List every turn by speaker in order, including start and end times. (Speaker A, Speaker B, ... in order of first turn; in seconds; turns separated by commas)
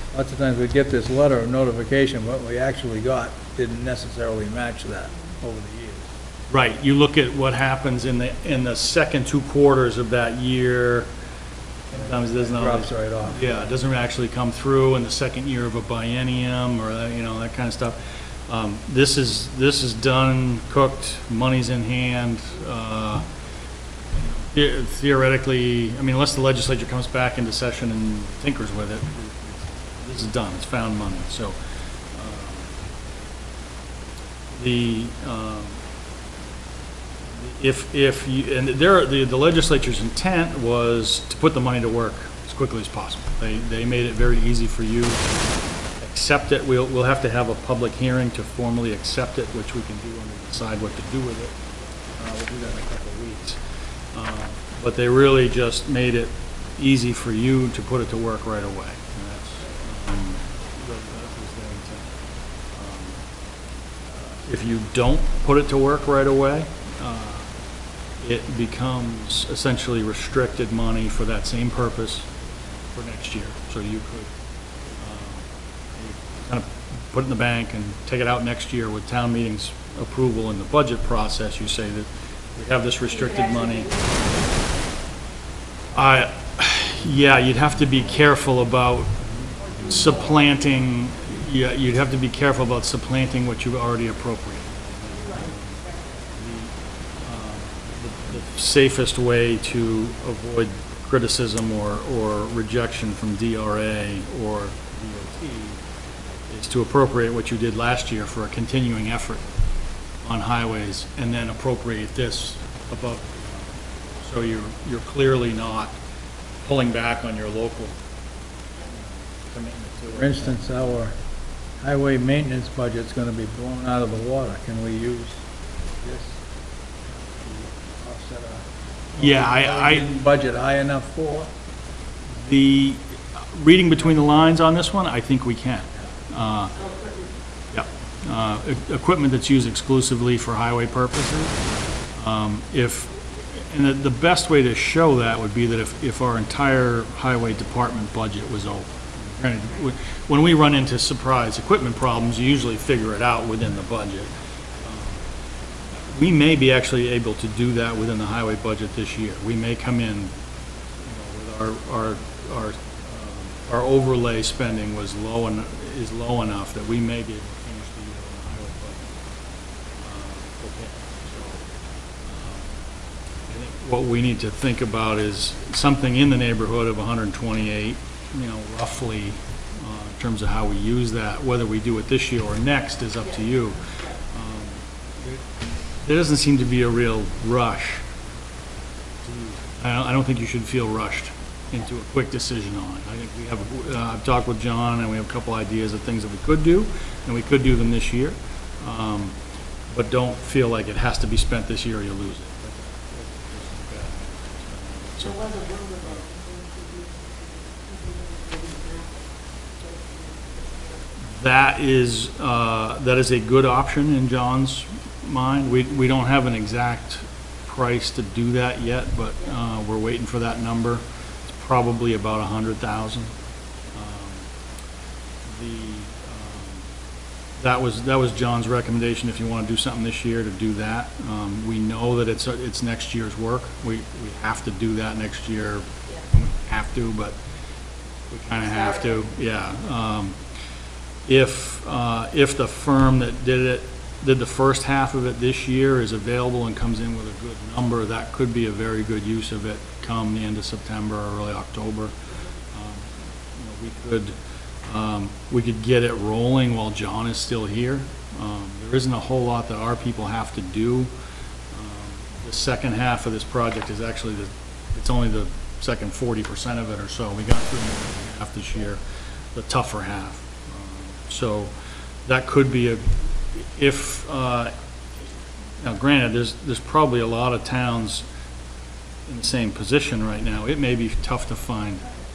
Speaker A: 0.1-6.1, Speaker B: 6.5-11.1, Speaker B: 11.9-23.2, Speaker A: 11.9-13.4, Speaker B: 24.1-31.6, Speaker B: 32.1-32.8, Speaker B: 34.5-35.8, Speaker B: 37.3-45.4, Speaker B: 46.0-51.5, Speaker B: 52.2-53.6, Speaker B: 54.1-62.1, Speaker B: 62.7-63.2, Speaker B: 64.1-67.5, Speaker B: 68.2-74.3, Speaker B: 75.0-83.9, Speaker C: 83.1-84.9, Speaker B: 85.9-89.3, Speaker C: 89.6-91.0, Speaker B: 89.9-95.8, Speaker C: 95.1-96.3, Speaker B: 96.3-105.8, Speaker B: 106.5-109.5, Speaker B: 110.2-113.7, Speaker B: 114.2-116.0, Speaker B: 116.6-118.0, Speaker B: 119.4-120.8, Speaker A: 120.0-121.2, Speaker A: 121.8-125.4, Speaker A: 126.0-126.4, Speaker A: 127.3-131.5, Speaker B: 129.1-130.1, Speaker B: 132.4-136.7, Speaker C: 136.6-137.4, Speaker B: 137.7-141.6, Speaker B: 142.2-155.3, Speaker B: 156.1-160.3, Speaker B: 161.0-169.1, Speaker B: 170.0-171.7, Speaker B: 172.2-172.7, Speaker B: 173.5-188.0, Speaker C: 183.2-184.2, Speaker B: 189.2-199.4, Speaker B: 199.9-205.4, Speaker C: 205.2-211.2, Speaker B: 211.3-223.3, Speaker B: 223.9-224.5, Speaker B: 225.5-226.8, Speaker B: 227.6-237.4, Speaker B: 238.3-240.4, Speaker C: 238.6-239.1, Speaker B: 241.3-252.1, Speaker B: 252.7-261.1, Speaker B: 261.7-269.0, Speaker B: 269.5-271.7, Speaker B: 272.2-274.7, Speaker B: 275.8-278.2, Speaker B: 279.3-282.1